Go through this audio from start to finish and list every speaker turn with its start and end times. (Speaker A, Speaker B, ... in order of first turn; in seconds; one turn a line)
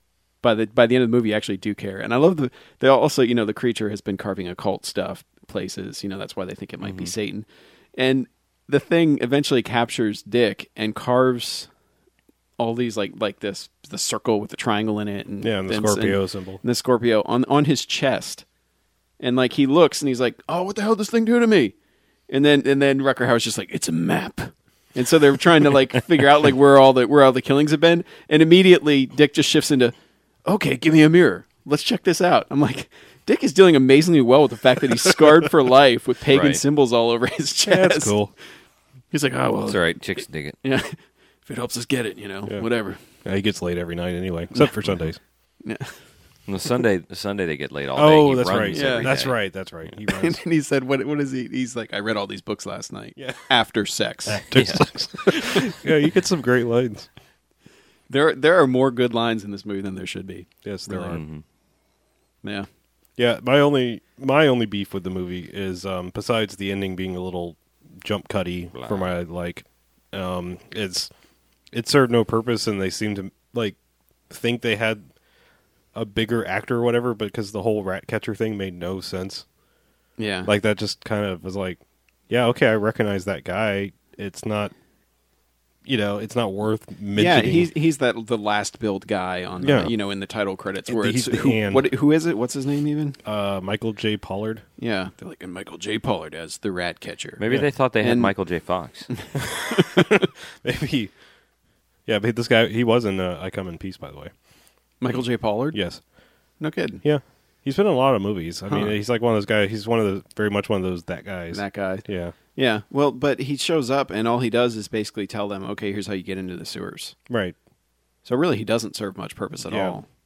Speaker A: 0.4-11.7
Speaker B: 6.8-7.1
Speaker A: 12.6-18.4
Speaker C: 15.4-16.6
Speaker A: 19.2-21.8
Speaker A: 22.3-38.1
Speaker B: 36.3-36.6
Speaker C: 37.7-38.3
Speaker A: 39.1-40.0
Speaker B: 39.7-40.6
Speaker A: 40.6-43.0
Speaker C: 43.2-45.2
Speaker A: 45.6-46.0
Speaker B: 46.5-49.4
Speaker C: 48.0-50.4
Speaker A: 48.7-49.1
Speaker A: 50.1-54.5
Speaker C: 53.2-53.5
Speaker C: 54.3-57.1
Speaker B: 54.5-54.9
Speaker A: 55.3-55.8
Speaker A: 58.1-61.2
Speaker C: 60.6-61.2
Speaker B: 61.1-61.4
Speaker C: 63.2-71.1
Speaker B: 68.8-69.1
Speaker C: 71.7-73.8
Speaker C: 74.3-75.0
Speaker C: 75.9-79.5
Speaker A: 80.2-80.5
Speaker C: 80.5-84.7
Speaker C: 85.8-87.7
Speaker A: 87.2-93.2
Speaker C: 89.6-89.9
Speaker C: 90.9-91.9
Speaker C: 93.2-94.6
Speaker A: 94.8-97.4
Speaker B: 97.4-99.1
Speaker A: 98.0-98.3
Speaker A: 99.1-100.3
Speaker C: 99.4-101.1
Speaker C: 102.1-104.3
Speaker A: 105.0-105.8
Speaker C: 105.7-106.0
Speaker A: 106.6-107.0
Speaker C: 107.0-112.3
Speaker A: 108.7-108.9
Speaker A: 111.5-117.2
Speaker C: 117.3-117.6
Speaker A: 118.2-120.1
Speaker C: 119.7-120.0